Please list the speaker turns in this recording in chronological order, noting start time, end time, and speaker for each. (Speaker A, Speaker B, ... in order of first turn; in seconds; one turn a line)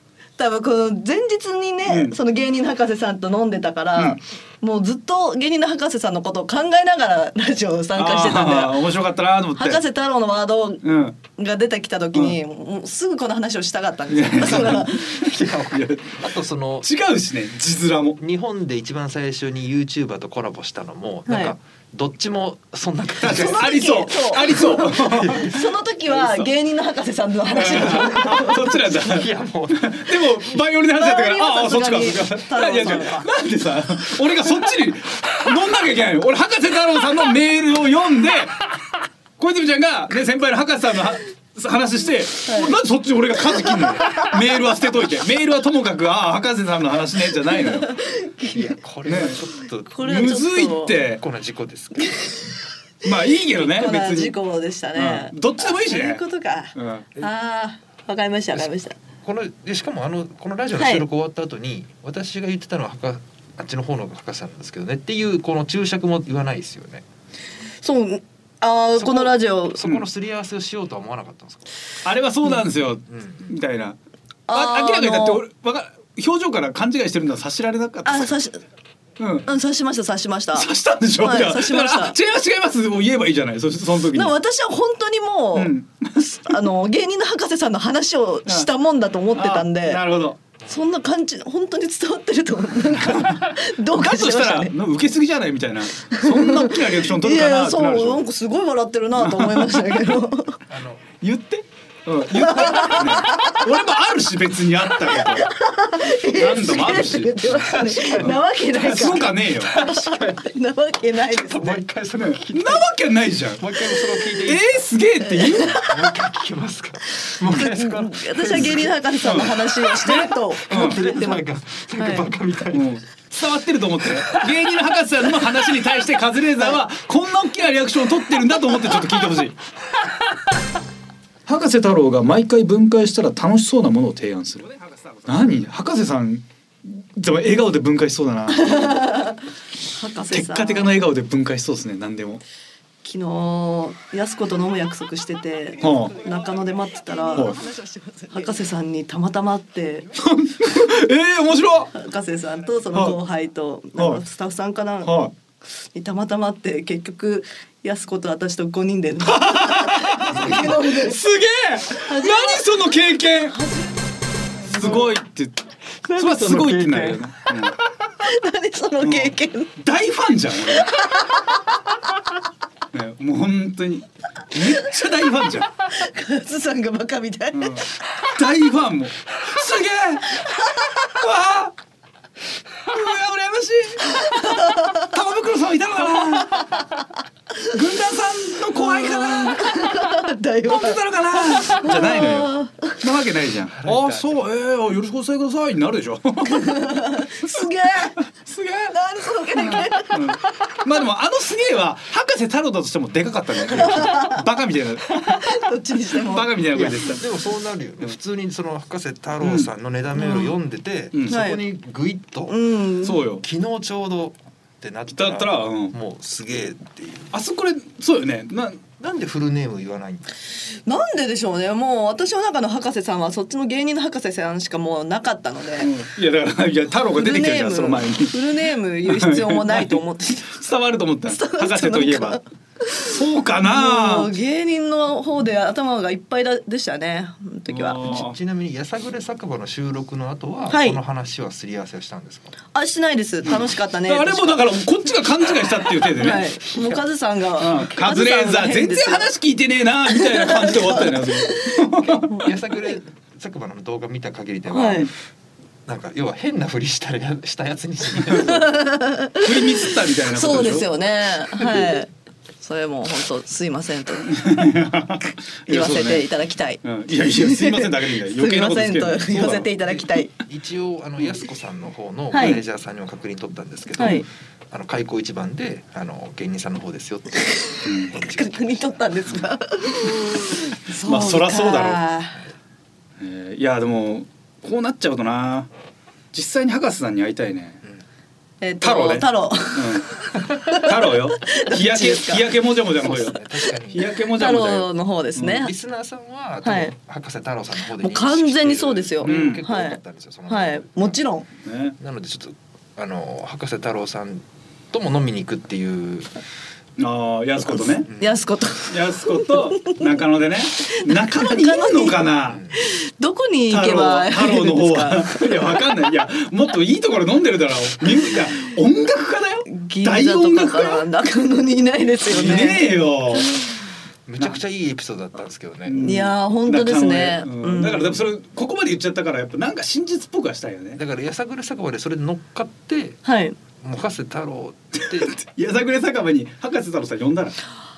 Speaker A: 0.4-8.8
Speaker B: 1.9-2.2
Speaker B: 8.0-9.8
Speaker A: 9.6-10.8
Speaker B: 10.8-11.2
Speaker A: 11.3-15.3
Speaker B: 14.1-16.2
Speaker C: 14.4-16.9
Speaker B: 16.8-18.2
Speaker C: 18.2-23.7
Speaker A: 21.3-21.5
Speaker B: 23.2-25.5
Speaker A: 23.2-28.8
Speaker C: 24.9-25.7
Speaker B: 26.2-26.5
Speaker B: 27.5-47.9
Speaker C: 27.9-30.3
Speaker A: 30.9-33.3
Speaker A: 42.5-42.8
Speaker A: 47.7-48.8
Speaker C: 48.5-50.2
Speaker B: 49.0-49.4
Speaker A: 49.9-51.0
Speaker B: 50.0-51.2
Speaker C: 51.2-52.4
Speaker B: 53.0-54.4
Speaker A: 53.5-59.0
Speaker B: 55.0-56.2
Speaker B: 56.8-57.1
Speaker C: 59.2-67.0
Speaker A: 60.8-61.0
Speaker A: 67.8-69.8
Speaker C: 69.0-71.7
Speaker B: 72.0-74.0
Speaker C: 73.1-73.5
Speaker A: 74.5-75.4
Speaker B: 74.5-78.3
Speaker A: 78.0-78.6
Speaker B: 79.2-79.5
Speaker A: 79.5-82.2
Speaker B: 80.5-84.3
Speaker A: 84.1-90.0
Speaker B: 85.5-86.6
Speaker B: 89.3-90.4
Speaker A: 90.7-94.7
Speaker B: 92.9-98.2
Speaker A: 96.1-100.6
Speaker B: 99.2-100.2
Speaker C: 100.7-101.1
Speaker B: 101.2-105.5
Speaker A: 102.3-103.7
Speaker A: 105.1-111.8
Speaker B: 106.2-107.6
Speaker C: 107.5-108.4
Speaker B: 108.2-109.7
Speaker C: 109.6-110.5
Speaker C: 111.3-114.8
Speaker B: 112.2-113.8
Speaker B: 114.4-115.8
Speaker A: 115.4-115.9
Speaker C: 115.8-119.0
Speaker A: 117.2-121.4
Speaker B: 119.2-121.0
Speaker C: 120.7-122.9
Speaker A: 122.0-122.3
Speaker B: 122.7-129.6
Speaker C: 124.2-124.5
Speaker B: 131.5-138.9
Speaker A: 138.5-141.0
Speaker B: 140.3-142.4
Speaker A: 143.0-150.1
Speaker B: 145.8-146.2
Speaker B: 147.3-147.7
Speaker B: 150.2-151.9
Speaker A: 151.9-155.2
Speaker B: 152.9-153.2
Speaker B: 154.0-154.2
Speaker B: 155.0-155.3
Speaker A: 155.9-161.2
Speaker B: 159.2-163.6
Speaker A: 162.0-162.7
Speaker A: 163.5-164.0
Speaker A: 164.6-165.1
Speaker B: 164.7-165.6
Speaker A: 166.1-166.6
Speaker B: 166.2-167.8
Speaker C: 166.2-167.2
Speaker A: 168.2-169.7
Speaker B: 169.0-171.1
Speaker A: 170.8-171.6
Speaker B: 172.9-175.7
Speaker A: 175.9-178.1
Speaker B: 177.5-180.5
Speaker A: 180.3-181.1
Speaker B: 181.1-181.8
Speaker B: 182.9-186.8
Speaker A: 184.1-185.1
Speaker A: 186.5-186.9
Speaker B: 187.7-190.0
Speaker A: 188.7-193.0
Speaker B: 190.7-197.7
Speaker C: 193.7-194.3
Speaker A: 196.4-198.2
Speaker B: 198.2-199.0
Speaker A: 198.9-200.4
Speaker B: 199.5-205.5
Speaker A: 203.7-204.4
Speaker A: 205.1-206.5
Speaker B: 206.1-207.3
Speaker C: 206.7-212.6
Speaker B: 209.4-209.7
Speaker A: 210.2-210.5
Speaker B: 211.1-211.4
Speaker A: 211.3-211.6
Speaker A: 212.5-213.2
Speaker B: 213.0-213.4
Speaker C: 213.4-217.3
Speaker B: 215.1-215.9
Speaker B: 217.3-218.8
Speaker C: 219.0-220.3
Speaker A: 220.9-225.9
Speaker B: 225.8-228.4
Speaker A: 227.1-230.6
Speaker B: 229.1-232.4
Speaker A: 231.3-238.2
Speaker B: 233.1-234.3
Speaker B: 237.7-238.4
Speaker C: 238.0-242.6
Speaker A: 240.7-241.0
Speaker A: 242.7-244.6
Speaker B: 244.1-246.5
Speaker A: 246.1-249.3
Speaker C: 246.7-247.0
Speaker B: 247.6-252.3
Speaker A: 250.1-252.9
Speaker C: 252.3-255.1
Speaker A: 254.7-255.1
Speaker C: 255.9-258.7
Speaker A: 258.3-262.1
Speaker B: 259.4-260.9
Speaker A: 262.6-264.6
Speaker B: 264.3-266.3
Speaker A: 265.7-270.3
Speaker B: 266.8-270.0
Speaker C: 270.4-279.4
Speaker A: 272.3-272.6
Speaker A: 274.0-274.3
Speaker A: 277.5-282.4
Speaker B: 277.9-278.1
Speaker B: 281.0-282.0
Speaker B: 283.2-285.7
Speaker B: 286.3-287.8
Speaker A: 288.6-292.5
Speaker B: 288.8-290.1
Speaker B: 290.7-293.4
Speaker C: 292.9-294.1
Speaker B: 293.9-295.6
Speaker A: 294.3-295.7
Speaker C: 295.4-301.2
Speaker A: 296.6-296.9
Speaker A: 298.0-301.5
Speaker B: 299.2-299.6
Speaker B: 301.6-302.0
Speaker C: 302.0-306.3
Speaker B: 307.0-308.1
Speaker C: 308.1-308.4
Speaker A: 308.2-310.0
Speaker B: 308.9-312.6
Speaker A: 310.8-315.9
Speaker C: 312.5-312.7
Speaker B: 313.7-321.1
Speaker A: 319.7-322.9
Speaker B: 322.3-323.5
Speaker A: 323.4-323.7
Speaker C: 324.3-326.1
Speaker B: 325.9-331.0
Speaker A: 326.0-328.2
Speaker C: 331.0-333.2
Speaker A: 333.2-333.6
Speaker C: 333.8-335.4
Speaker B: 335.1-337.6